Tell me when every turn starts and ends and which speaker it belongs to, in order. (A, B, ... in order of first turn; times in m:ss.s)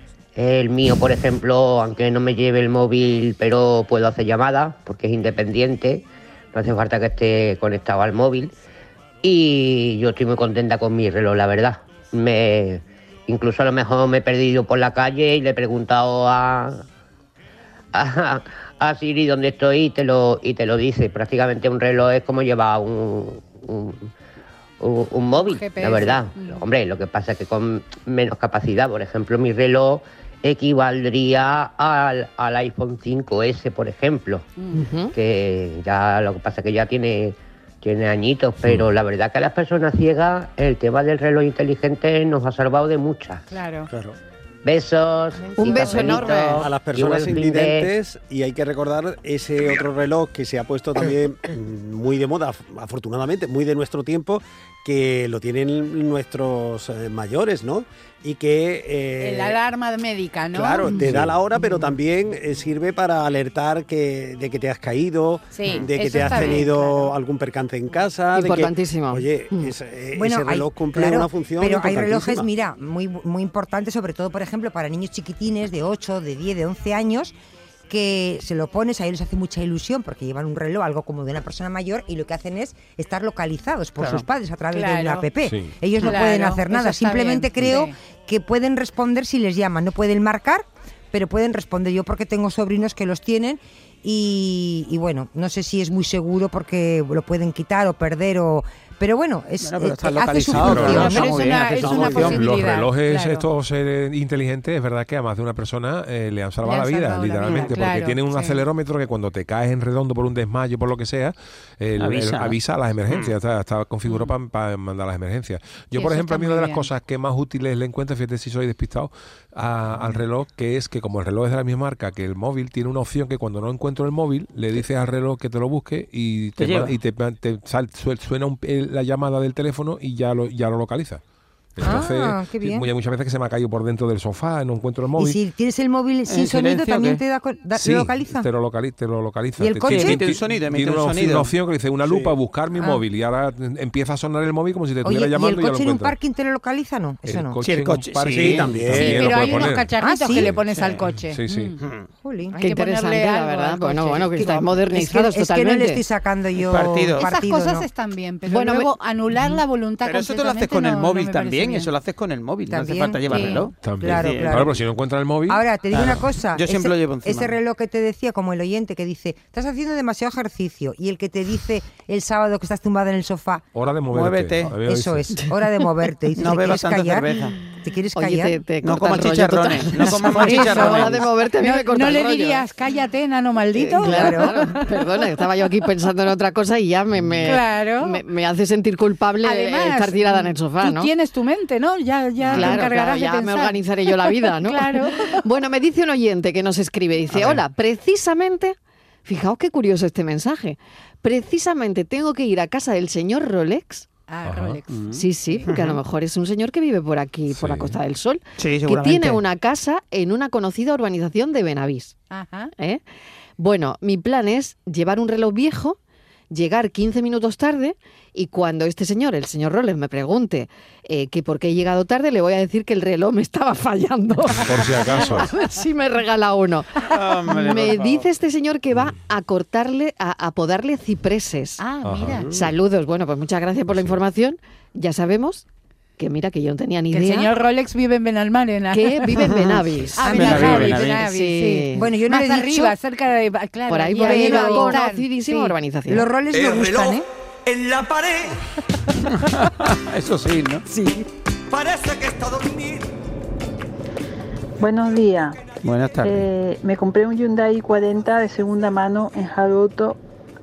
0:00.4-0:08.5 A
0:09.2-0:16.8 A
0:17.9-0:24.1 A
0:24.8-0:34.5 A
0:25.4-0:26.7 B
0:34.6-0:34.8 B
0:34.7-0:35.1 C
0:35.1-0:43.4 A
0:43.5-0:43.9 B
0:43.9-0:44.2 D
0:44.6-0:47.9 A
0:45.6-0:46.7 C
0:45.8-0:59.6 D
0:59.2-1:01.0 B
1:00.5-1:12.5 D
1:01.0-1:01.4 E
1:05.5-1:07.1 B
1:08.3-1:09.7 C
1:10.1-1:17.3 F
1:17.9-1:41.3 F
1:24.0-1:24.3 G
1:24.7-1:25.3 B
1:25.5-1:25.7 E
1:26.0-1:27.9 B
1:39.6-1:42.4 G
1:40.5-1:41.2 E
1:40.8-1:43.5 B
1:41.1-1:42.4 D
1:41.9-2:11.2 E
1:46.6-1:48.6 B
1:47.4-1:47.8 G
1:52.0-1:53.4 G
1:55.9-1:56.9 B
2:06.6-2:07.0 G
2:11.8-2:15.4 E
2:11.8-2:12.9 F
2:15.2-2:18.5 F
2:16.3-2:17.2 G
2:17.8-2:26.2 E
2:19.6-2:20.3 F
2:19.8-2:21.6 G
2:22.0-2:22.4 D
2:25.0-2:27.6 F
2:27.2-2:30.6 E
2:27.6-2:29.7 G
2:28.3-2:29.4 D
2:28.9-2:31.8 B
2:30.0-2:30.5 F
2:30.6-2:31.1 G
2:31.2-2:31.7 E
2:31.8-2:32.1 G
2:32.2-2:32.6 F
2:32.5-2:34.7 B
2:32.6-2:36.0 C
2:34.9-2:37.9 F
2:36.6-2:37.3 G
2:37.2-2:41.9 B
2:38.5-2:38.9 C
2:40.0-2:44.8 G
2:42.7-2:44.8 F
2:43.3-2:43.7 B
2:43.8-2:45.7 E
2:45.5-2:53.6 F
2:45.9-2:47.6 G
2:53.8-2:55.3 E
2:54.1-2:54.8 G
2:54.8-2:57.3 F
2:56.4-2:57.6 G
2:57.8-2:58.6 F
2:58.2-3:02.6 C
2:58.8-3:01.3 G
3:00.2-3:05.2 B
3:03.8-3:11.1 C
3:03.9-3:04.6 F
3:07.4-3:08.2 B
3:09.4-3:15.4 B
3:12.5-3:24.1 C
3:17.3-3:17.6 G
3:24.3-3:25.7 B
3:24.4-3:24.8 E
3:24.9-3:26.0 G
3:25.1-3:32.2 C
3:27.5-3:28.0 E
3:28.6-3:29.4 G
3:32.3-3:32.7 B
3:33.6-3:36.0 C
3:36.5-3:51.8 C
3:44.5-3:45.5 E
3:47.1-3:48.3 G
3:51.8-3:52.5 B
3:52.0-3:52.4 E
3:52.5-3:55.6 C
3:53.9-3:54.2 E
3:56.2-3:57.5 C
3:57.1-3:59.6 B
3:58.9-4:02.1 C
3:59.4-4:01.2 G
4:00.2-4:05.8 B
4:00.2-4:01.0 F
4:01.9-4:03.0 F
4:03.9-4:06.3 C
4:04.2-4:05.0 F
4:06.1-4:07.3 F
4:06.6-4:08.5 H
4:09.3-4:10.9 G
4:11.7-4:13.0 H
4:14.8-4:15.6 I
4:15.8-4:16.5 G
4:16.2-4:20.2 I